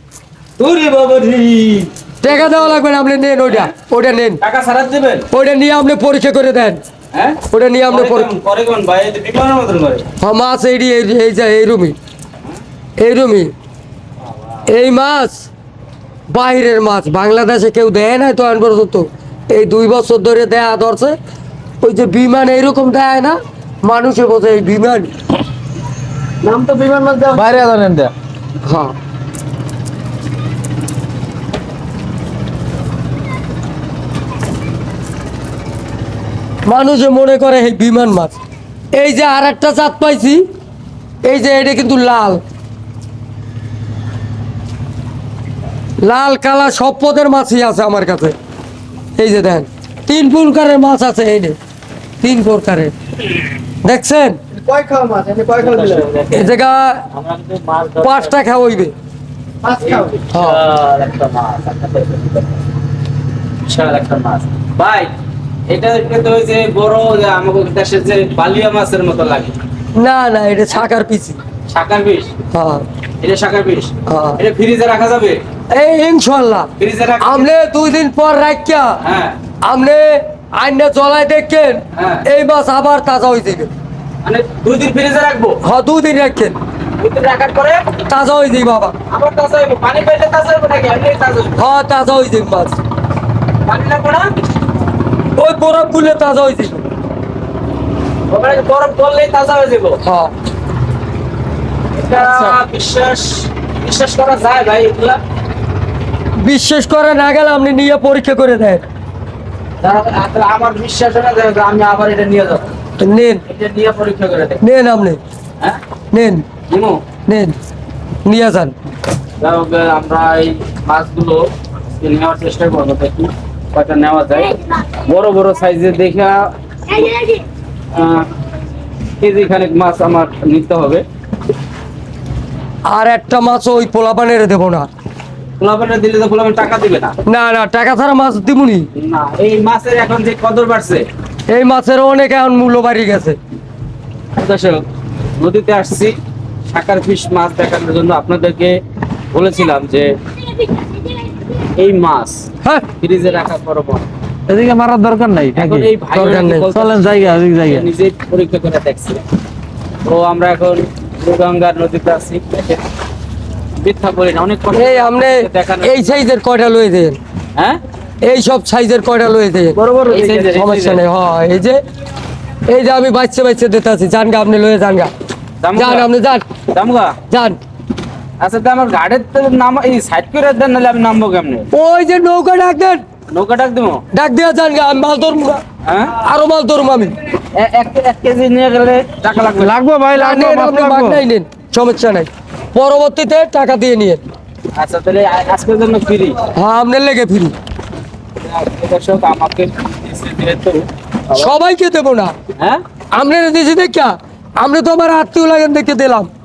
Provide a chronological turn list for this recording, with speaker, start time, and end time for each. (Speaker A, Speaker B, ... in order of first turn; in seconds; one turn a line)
Speaker A: 0.6-2.8
Speaker B: 2.2-4.4
Speaker A: 3.5-3.7
Speaker A: 4.4-5.3
Speaker B: 5.3-6.8
Speaker A: 7.1-10.1
Speaker B: 7.5-8.3
Speaker B: 10.2-11.9
Speaker B: 13.0-13.5
Speaker A: 14.2-14.7
Speaker B: 14.7-15.4
Speaker B: 16.3-21.2
Speaker B: 21.8-25.1
Speaker A: 26.4-27.6
Speaker C: 27.3-28.1
Speaker B: 28.6-28.9
Speaker B: 36.6-38.4
Speaker B: 38.9-40.4
Speaker B: 41.2-42.4
Speaker B: 46.0-48.4
Speaker B: 49.2-51.6
Speaker B: 52.2-52.9
Speaker B: 53.8-54.4
Speaker C: 54.7-55.9
Speaker A: 55.5-56.6
Speaker B: 56.3-57.0
Speaker A: 57.1-58.4
Speaker B: 58.0-58.9
Speaker A: 59.7-62.6
Speaker B: 60.3-60.6
Speaker A: 63.6-65.1
Speaker A: 65.7-69.5
Speaker B: 70.0-71.4
Speaker A: 71.7-72.3
Speaker B: 72.5-72.8
Speaker A: 73.2-75.4
Speaker B: 74.1-74.4
Speaker B: 75.7-76.7
Speaker A: 76.8-77.5
Speaker B: 77.2-79.0
Speaker A: 79.0-79.4
Speaker B: 79.6-83.7
Speaker A: 81.9-82.2
Speaker A: 84.2-85.6
Speaker B: 85.6-86.5
Speaker A: 87.0-87.9
Speaker B: 88.0-88.9
Speaker A: 89.1-91.6
Speaker B: 91.6-92.8
Speaker A: 93.6-94.3
Speaker B: 95.4-96.8
Speaker A: 98.3-100.0
Speaker B: 100.0-100.3
Speaker A: 101.9-105.2
Speaker B: 106.4-108.8
Speaker A: 109.8-112.7
Speaker B: 113.0-113.4
Speaker A: 113.5-114.6
Speaker B: 114.6-115.2
Speaker B: 116.1-116.5
Speaker A: 116.7-117.0
Speaker B: 117.3-117.6
Speaker B: 118.2-118.7
Speaker A: 119.4-127.4
Speaker A: 127.9-128.3
Speaker A: 129.2-131.0
Speaker B: 132.8-134.9
Speaker A: 135.6-137.1
Speaker B: 137.2-138.9
Speaker A: 138.9-141.1
Speaker B: 141.5-143.4
Speaker A: 144.3-146.2
Speaker A: 146.7-148.8
Speaker A: 149.3-150.2
Speaker A: 151.6-154.1
Speaker C: 154.5-155.9
Speaker A: 155.5-159.2
Speaker B: 156.1-156.7
Speaker C: 156.7-157.8
Speaker A: 160.0-162.8
Speaker A: 163.8-166.2
Speaker B: 164.7-167.2
Speaker B: 168.2-171.8
Speaker C: 169.8-170.2
Speaker A: 170.1-171.0
Speaker B: 172.7-175.1
Speaker A: 175.6-176.1
Speaker B: 175.7-176.4
Speaker A: 176.7-177.2
Speaker B: 177.3-177.6
Speaker A: 178.4-181.7
Speaker B: 181.7-183.0
Speaker A: 183.3-184.0
Speaker B: 184.1-185.6
Speaker A: 185.8-186.1
Speaker B: 186.2-187.1
Speaker A: 187.5-189.8
Speaker C: 189.5-191.2
Speaker B: 190.1-194.2
Speaker A: 194.8-196.4
Speaker B: 196.5-197.5
Speaker A: 198.4-201.5
Speaker B: 201.3-202.3
Speaker B: 203.1-206.3